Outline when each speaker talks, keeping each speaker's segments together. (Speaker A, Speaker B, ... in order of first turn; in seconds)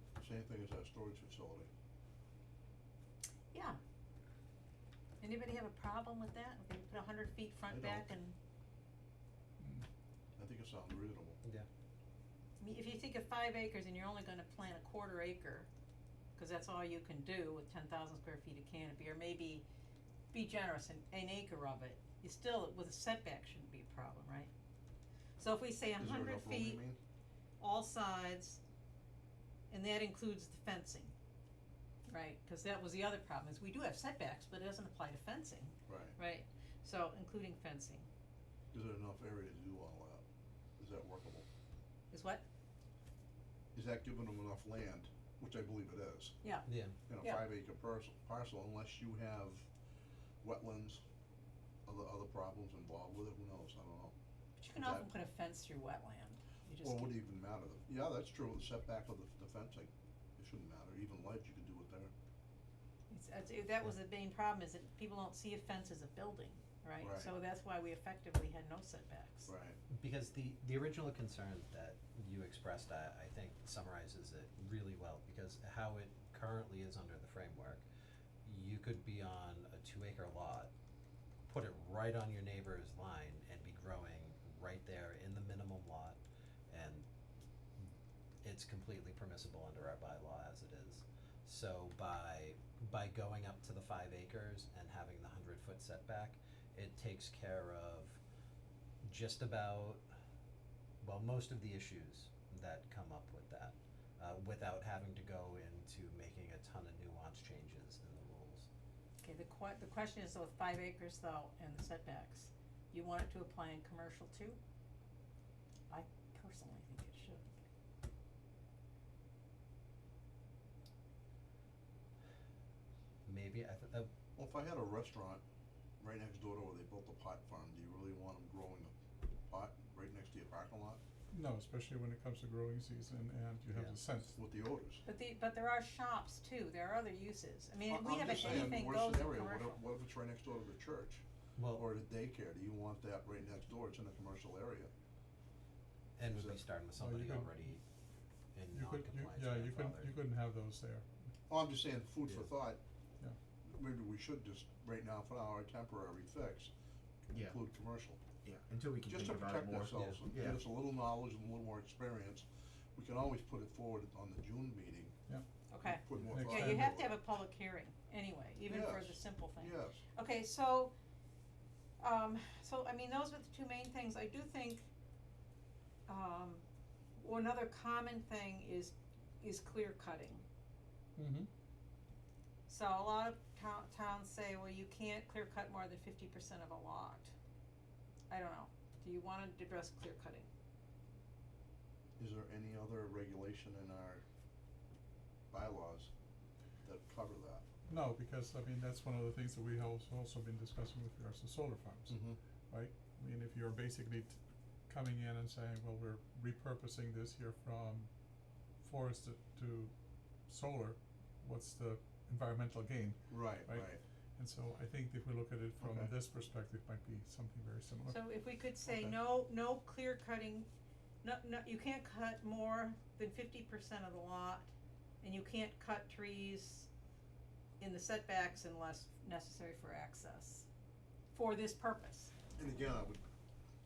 Speaker A: 0.2-1.7, 7.7-8.1, 10.4-11.4, 26.0-27.0, 35.9-36.1, 38.7-40.2, 40.8-41.5, 43.7-46.4, 47.1-49.7, 50.4-51.0, 51.9-54.1, 54.7-55.1, 56.8-62.1, 67.0-67.3, 69.5-69.8, 124.4-125.4, 126.0-128.9, 129.5-131.0, 134.4-135.0, 137.9-144.9, 146.3-146.6, 151.5-152.8, 153.6-156.7, 157.3-158.2, 159.0-165.1, 165.8-167.1, 168.7-170.0, 192.2-194.2, 195.5-196.1, 196.8-197.7, 202.1-202.4, 213.3-214.0, 215.8-216.1, 232.6-233.2
Speaker B: 3.5-3.8, 5.2-8.3, 12.6-15.7, 16.4-19.6, 20.3-24.5, 25.4-26.8, 27.6-28.6, 29.7-31.1, 32.1-38.1, 42.1-42.4, 54.6-57.1, 63.1-69.5, 109.2-114.6, 115.9-117.5, 135.1-139.8, 165.7-170.9, 172.0-174.9, 176.1-176.6, 177.2-180.4, 182.7-187.3, 188.3-190.5, 218.1-220.7, 221.2-224.7, 225.2-226.9, 227.8-230.7, 231.3-232.3
Speaker C: 46.7-47.0, 69.9-77.8, 78.4-80.7, 81.5-87.0, 87.8-98.2, 99.0-100.0, 101.0-108.7, 123.2-124.1, 133.7-134.0, 141.6-141.9, 146.2-147.8, 148.5-150.1, 152.2-152.5, 159.9-160.2
Speaker D: 131.3-134.4, 146.9-147.7, 148.7-151.3, 166.1-167.0, 197.9-208.1, 208.7-209.9, 210.4-218.2
Speaker E: 157.3-157.6, 158.4-160.6